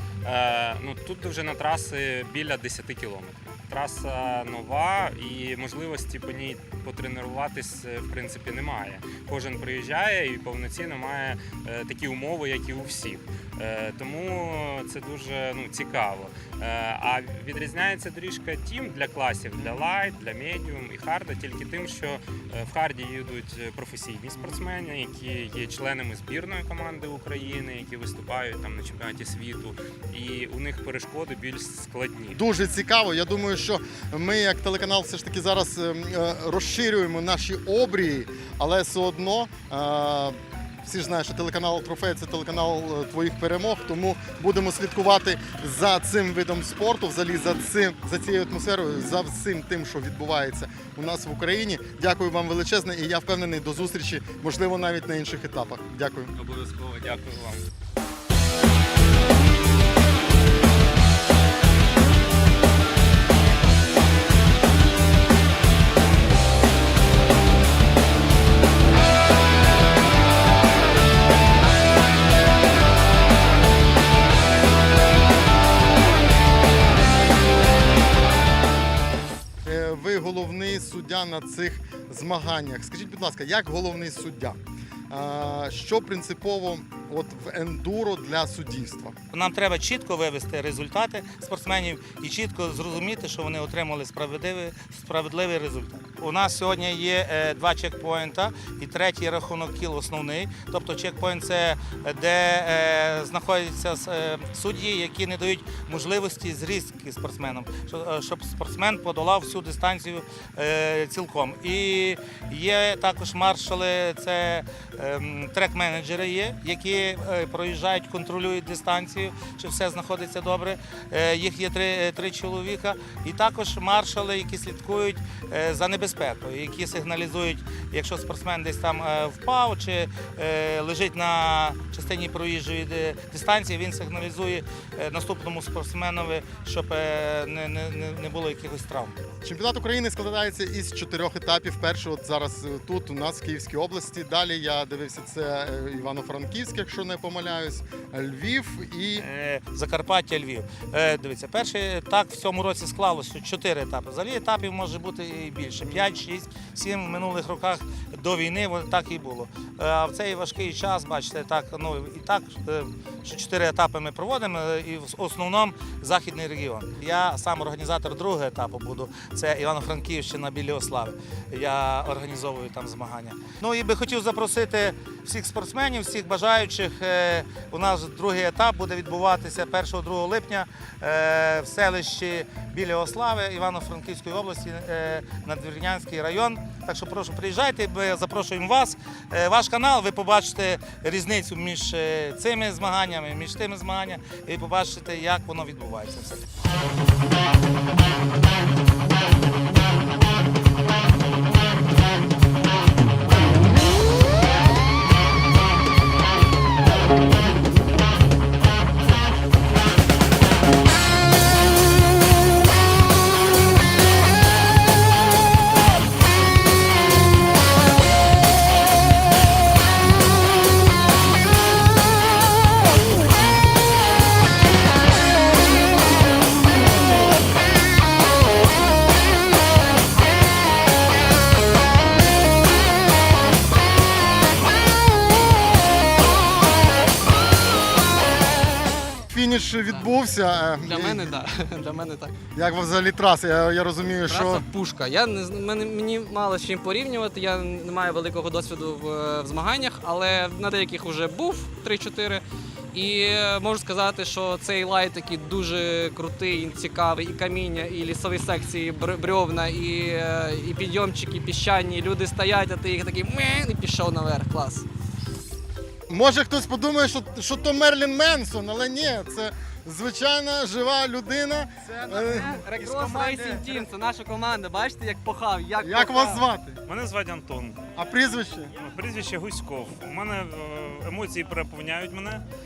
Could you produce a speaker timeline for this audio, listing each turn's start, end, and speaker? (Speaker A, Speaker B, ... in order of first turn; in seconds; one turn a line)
Speaker A: 0.2-32.4
Speaker B: 32.3-56.3
Speaker A: 56.4-57.7
Speaker B: 79.6-84.6
Speaker B: 85.1-89.1
Speaker C: 89.3-139.2
Speaker B: 139.4-149.2
Speaker C: 149.2-196.4
Speaker B: 239.3-241.4
Speaker D: 240.8-242.3
Speaker B: 242.5-244.7
Speaker D: 244.2-264.9
Speaker B: 266.1-273.8
Speaker D: 272.0-276.5
Speaker B: 275.8-276.8
Speaker E: 276.9-277.8
Speaker B: 277.9-278.7
Speaker E: 278.8-282.4